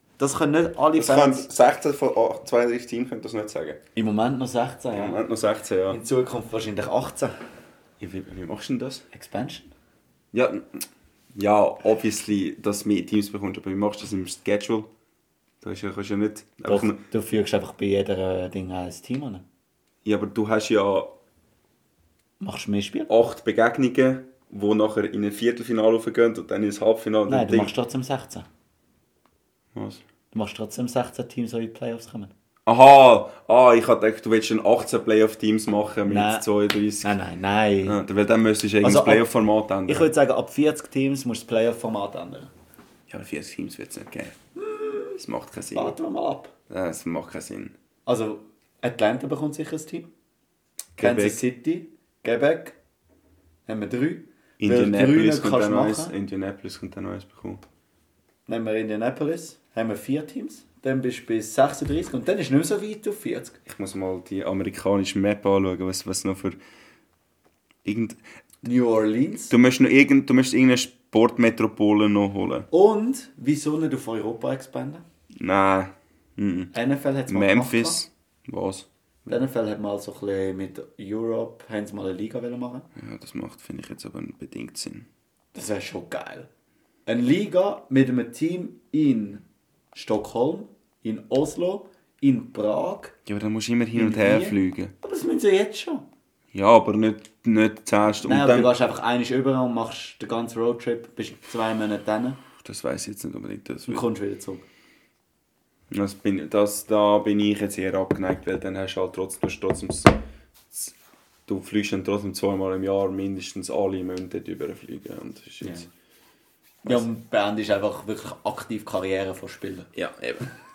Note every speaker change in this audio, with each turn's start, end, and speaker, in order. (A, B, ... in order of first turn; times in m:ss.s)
0:00.2-0:01.5 A
0:00.9-0:03.8 B
0:03.9-0:05.2 A
0:04.9-0:06.0 B
0:05.9-0:07.3 A
0:08.0-0:09.0 B
0:09.1-0:09.7 A
0:10.3-0:10.8 B
0:11.3-0:14.9 B
0:15.6-0:17.0 B
0:16.7-0:19.4 A
0:20.0-0:21.1 B
0:22.4-0:23.1 A
0:23.1-0:27.7 B
0:27.3-0:28.5 A
0:29.7-0:30.0 B
0:30.3-0:32.3 A
0:32.6-0:37.1 B
0:36.1-0:36.4 A
0:37.0-0:38.0 A
0:37.8-0:40.1 B
0:38.8-0:39.3 A
0:39.8-0:42.5 A
0:43.1-0:44.4 B
0:44.6-0:45.2 A
0:45.2-0:45.9 B
0:45.7-0:46.5 A
0:46.7-0:47.7 B
0:48.0-0:50.1 A
0:50.9-0:51.4 B
0:51.0-0:52.8 A
0:53.7-0:56.1 A
0:54.6-0:57.6 B
0:58.5-1:03.6 A
1:03.6-1:06.6 B
1:07.8-1:08.2 B
1:08.6-1:09.5 A
1:09.5-1:12.7 B
1:12.7-1:15.0 A
1:15.4-1:16.7 B
1:16.7-1:18.0 A
1:17.3-1:18.9 B
1:19.3-1:22.9 A
1:23.0-1:25.1 B
1:25.5-1:26.5 A
1:27.0-1:33.2 A
1:33.2-1:34.9 B
1:33.9-1:36.0 A
1:36.5-1:38.7 B
1:38.2-1:42.4 A
1:42.6-1:44.0 B
1:43.9-1:44.6 A
1:45.9-1:50.2 B
1:51.5-1:55.9 B
1:56.8-1:59.9 A
1:59.9-2:00.5 B